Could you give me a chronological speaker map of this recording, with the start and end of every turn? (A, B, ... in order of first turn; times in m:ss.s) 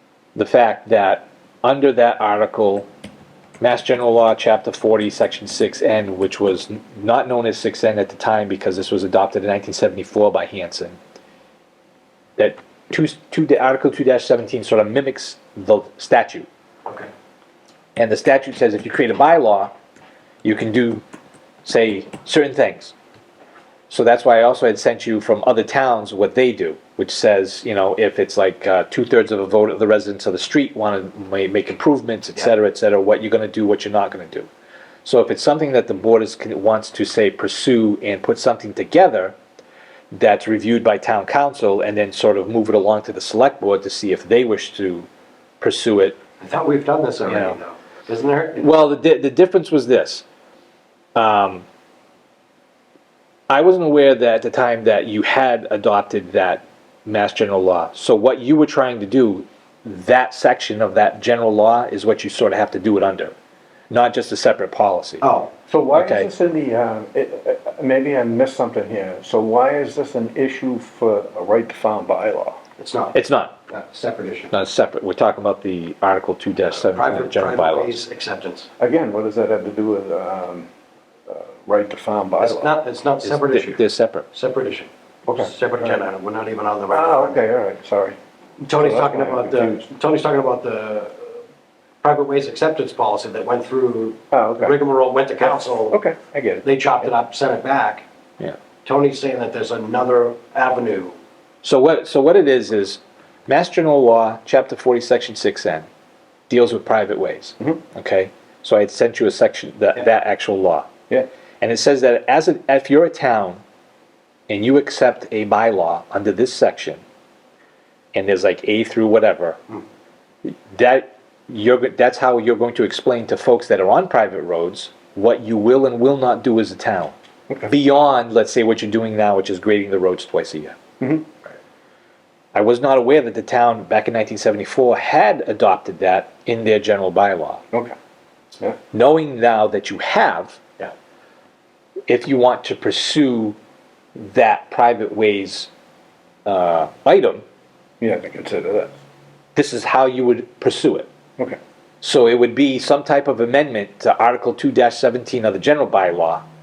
0:00.3-0:02.9 A
0:03.6-0:11.0 A
0:12.4-0:16.5 A
0:18.0-0:19.7 A
0:20.4-0:21.0 A
0:21.6-0:22.9 A
0:23.9-0:34.5 A
0:35.0-0:39.3 A
0:40.1-0:45.1 A
0:45.6-0:46.2 A
0:46.4-0:48.7 B
0:47.3-0:47.6 A
0:48.6-0:50.2 A
0:51.2-0:51.6 A
0:53.5-1:03.3 A
1:03.9-1:05.2 A
1:05.2-1:05.5 B
1:05.7-1:12.6 C
1:05.9-1:06.3 A
1:12.8-1:13.1 B
1:13.1-1:13.5 A
1:13.7-1:14.5 B
1:14.5-1:17.9 A
1:16.7-1:18.7 B
1:18.8-1:20.7 C
1:21.3-1:22.7 C
1:22.4-1:23.8 B
1:23.2-1:24.2 A
1:24.3-1:27.4 B
1:25.2-1:26.0 C
1:26.9-1:28.2 C
1:28.6-1:31.3 B
1:28.8-1:29.8 C
1:32.0-1:36.0 B
1:34.3-1:34.8 C
1:35.4-1:37.1 C
1:36.6-1:38.0 B
1:38.8-1:41.1 B
1:41.6-1:45.8 A
1:46.5-1:50.9 A
1:51.6-1:53.6 A
1:54.5-1:57.0 A
1:58.1-1:59.6 A
2:00.4-2:07.1 A
2:07.6-2:10.8 A
2:11.0-2:11.2 C
2:12.5-2:17.6 A
2:18.9-2:20.6 A
2:22.1-2:23.6 A
2:24.1-2:25.7 A
2:26.4-2:27.4 A
2:28.0-2:28.9 C
2:29.5-2:31.1 A
2:32.0-2:36.4 A